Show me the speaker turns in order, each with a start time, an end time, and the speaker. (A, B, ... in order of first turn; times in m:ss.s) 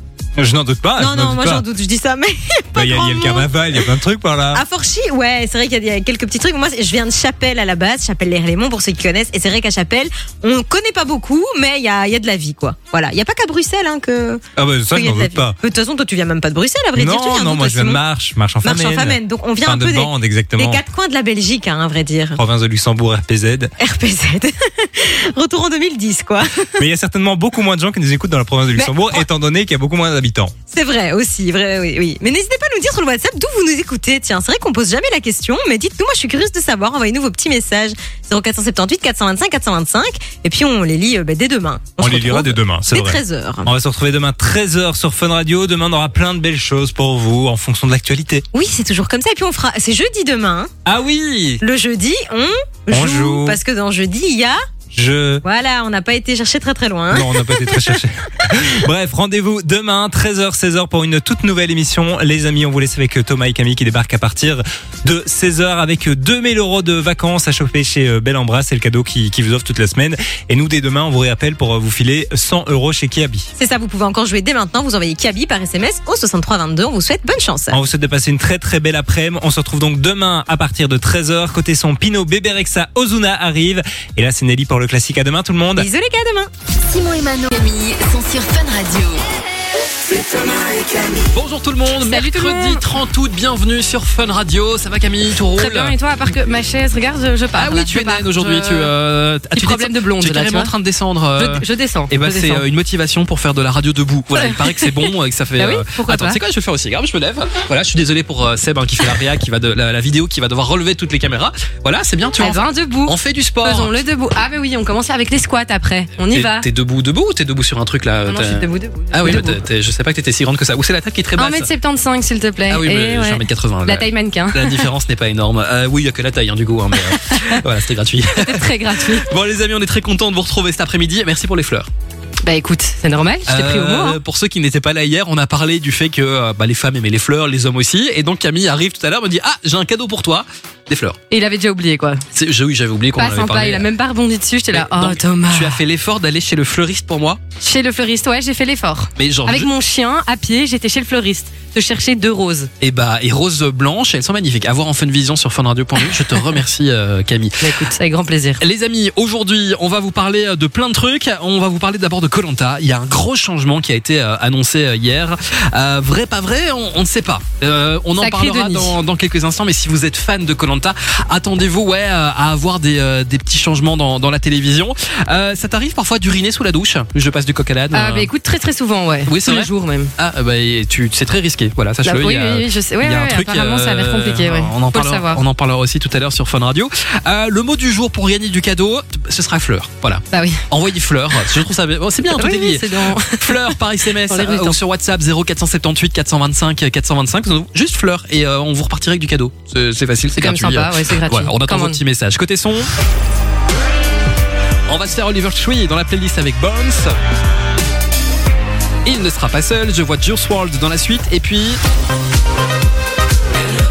0:00.4-0:01.6 A
0:01.0-0:03.9 B
0:02.7-0:04.6 A
0:04.5-0:18.0 B
0:14.6-0:15.6 A
0:17.0-0:20.8 A
0:18.6-0:22.4 B
0:22.4-0:23.7 A
0:23.8-0:26.7 B
0:26.8-0:30.5 A
0:28.8-0:29.2 B
0:30.7-0:43.7 B
0:42.0-0:48.4 A
0:48.5-0:50.7 B
0:50.8-0:51.6 A
0:51.6-0:54.6 B
0:52.9-0:53.6 A
0:54.9-0:55.4 A
0:55.4-0:58.0 B
0:57.1-1:13.5 A
1:13.6-1:17.8 B
1:17.7-1:25.9 A
1:25.8-1:26.5 B
1:26.9-1:29.2 C
1:30.2-1:31.1 C
1:31.1-1:36.0 D
1:32.0-1:32.8 E
1:35.5-1:38.9 E
1:37.5-1:54.0 D
1:39.5-1:40.7 E
1:41.3-1:42.6 E
1:44.3-1:46.4 E
1:52.4-1:56.6 E
1:56.3-2:01.7 D
1:58.2-1:59.6 E
2:01.4-2:04.8 E
2:02.7-2:11.9 D
2:07.1-2:07.5 E
2:08.3-2:09.2 E
2:12.4-2:14.2 E
2:13.4-2:21.2 D
2:21.3-2:22.2 E
2:22.3-2:23.9 D
2:23.1-2:25.8 E
2:24.7-2:27.4 D
2:27.6-2:32.7 E
2:29.2-2:29.7 D
2:32.8-2:37.7 D
2:36.0-2:36.4 E
2:37.6-2:38.6 E
2:38.6-2:58.3 D
2:48.2-2:48.9 E
2:57.9-3:00.1 E
2:59.2-3:22.9 D
3:02.0-3:05.4 E
3:10.3-3:10.6 E
3:12.2-3:14.8 E
3:20.3-3:22.0 E
3:24.9-3:27.1 D
3:29.0-3:31.8 D